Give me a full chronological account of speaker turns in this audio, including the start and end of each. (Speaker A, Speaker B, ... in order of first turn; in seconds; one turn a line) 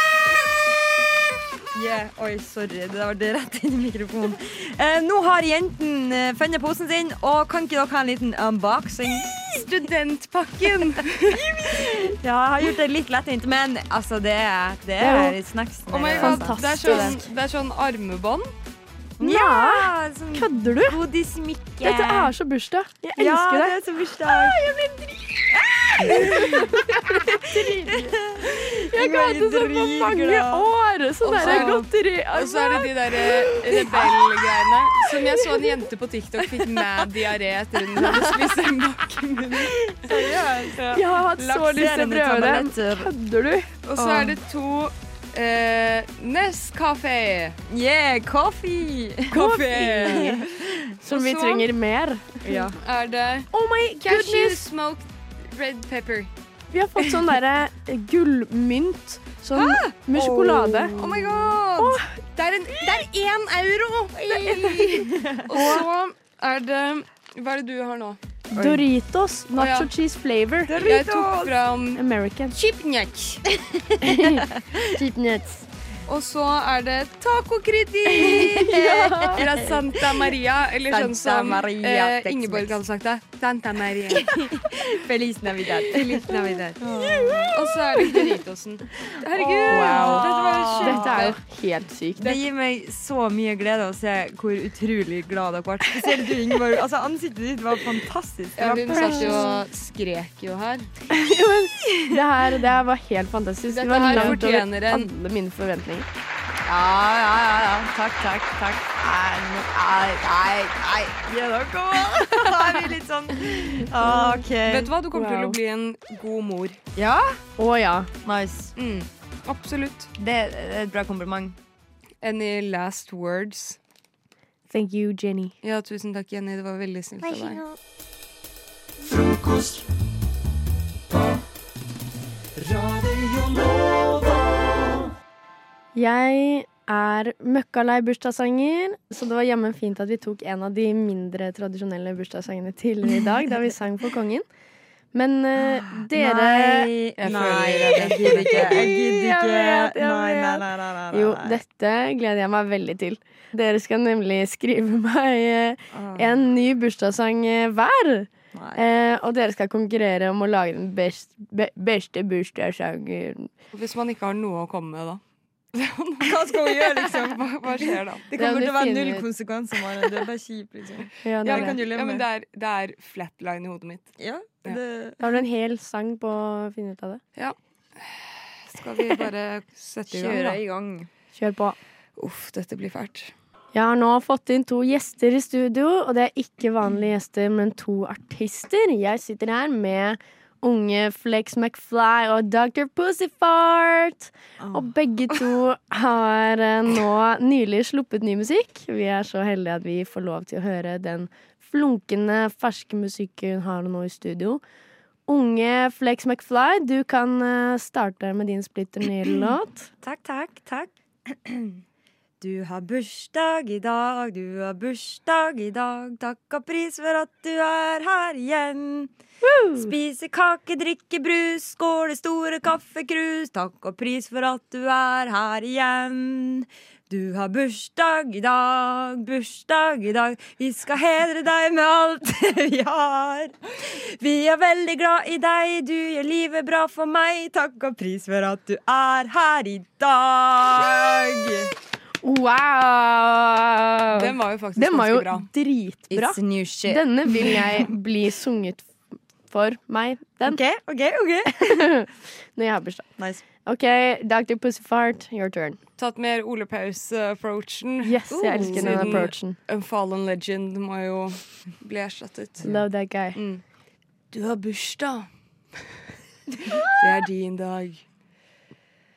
Speaker A: 1.7-9.3
Speaker B: 9.3-11.7
Speaker A: 11.6-17.1
Speaker C: 15.0-15.4
Speaker B: 15.9-18.5
Speaker C: 16.1-17.3
Speaker A: 19.2-22.3
Speaker C: 19.2-21.0
Speaker C: 21.8-35.8
Speaker A: 23.1-24.6
Speaker A: 26.0-26.7
Speaker A: 27.4-30.7
Speaker A: 31.2-31.9
Speaker B: 31.3-31.8
Speaker B: 32.3-39.7
Speaker A: 33.7-34.0
Speaker C: 37.9-38.6
Speaker A: 39.6-43.1
Speaker C: 40.9-44.4
Speaker B: 43.9-47.5
Speaker A: 47.7-49.4
Speaker C: 49.3-50.4
Speaker B: 49.3-50.4
Speaker A: 50.0-50.9
Speaker C: 51.0-52.7
Speaker B: 51.1-51.6
Speaker A: 52.4-52.7
Speaker B: 52.7-53.5
Speaker C: 53.5-54.7
Speaker B: 54.0-56.3
Speaker C: 56.7-62.2
Speaker A: 60.1-61.5
Speaker B: 60.9-68.2
Speaker A: 64.3-65.7
Speaker C: 65.5-65.8
Speaker C: 68.5-71.2
Speaker A: 68.5-68.8
Speaker B: 69.6-69.9
Speaker B: 70.7-72.0
Speaker A: 70.8-71.5
Speaker C: 71.9-72.5
Speaker B: 72.5-73.4
Speaker A: 73.6-74.8
Speaker C: 74.0-75.7
Speaker B: 76.0-78.7
Speaker C: 78.1-79.5
Speaker A: 78.2-80.3
Speaker B: 79.3-84.2
Speaker A: 80.9-82.8
Speaker A: 84.1-87.6
Speaker B: 86.0-86.8
Speaker C: 87.1-87.4
Speaker B: 87.5-91.3
Speaker C: 88.0-88.3
Speaker A: 89.3-91.3
Speaker C: 89.4-92.4
Speaker A: 92.2-99.4
Speaker C: 96.0-96.2
Speaker B: 98.6-100.9
Speaker C: 98.8-99.6
Speaker C: 101.1-106.1
Speaker B: 103.7-105.1
Speaker A: 106.7-114.9
Speaker C: 114.0-114.4
Speaker B: 114.6-116.8
Speaker C: 115.1-115.5
Speaker A: 117.0-117.4
Speaker C: 117.6-118.1
Speaker A: 118.2-118.7
Speaker B: 118.8-120.1
Speaker A: 120.2-121.5
Speaker B: 122.2-123.8
Speaker C: 124.7-125.5
Speaker B: 125.6-127.6
Speaker A: 127.2-127.6
Speaker C: 135.9-144.4
Speaker C: 145.1-163.5
Speaker A: 145.7-151.6
Speaker B: 147.2-148.8
Speaker A: 155.9-156.4
Speaker A: 158.5-158.8
Speaker B: 163.7-165.2
Speaker B: 165.7-168.3
Speaker A: 166.2-167.4
Speaker A: 168.3-172.2
Speaker C: 168.3-169.2
Speaker C: 171.2-171.8
Speaker B: 171.4-174.1
Speaker A: 174.2-175.2
Speaker C: 175.2-177.2
Speaker B: 177.3-180.6
Speaker A: 180.1-181.1
Speaker C: 181.3-181.8
Speaker B: 182.2-183.3
Speaker C: 183.7-204.6
Speaker C: 205.3-209.9
Speaker A: 210.0-211.8
Speaker A: 212.4-219.1
Speaker C: 219.4-219.9
Speaker A: 219.7-241.7
Speaker C: 242.2-248.9
Speaker B: 244.1-245.5
Speaker A: 246.1-247.1
Speaker C: 249.5-250.6
Speaker A: 250.4-251.8
Speaker C: 251.5-253.1
Speaker A: 253.2-253.4
Speaker C: 253.6-255.8
Speaker B: 256.0-262.7
Speaker C: 258.0-259.6
Speaker A: 258.3-259.3
Speaker C: 262.6-263.4
Speaker B: 263.3-263.6
Speaker B: 264.3-265.3
Speaker B: 267.0-268.0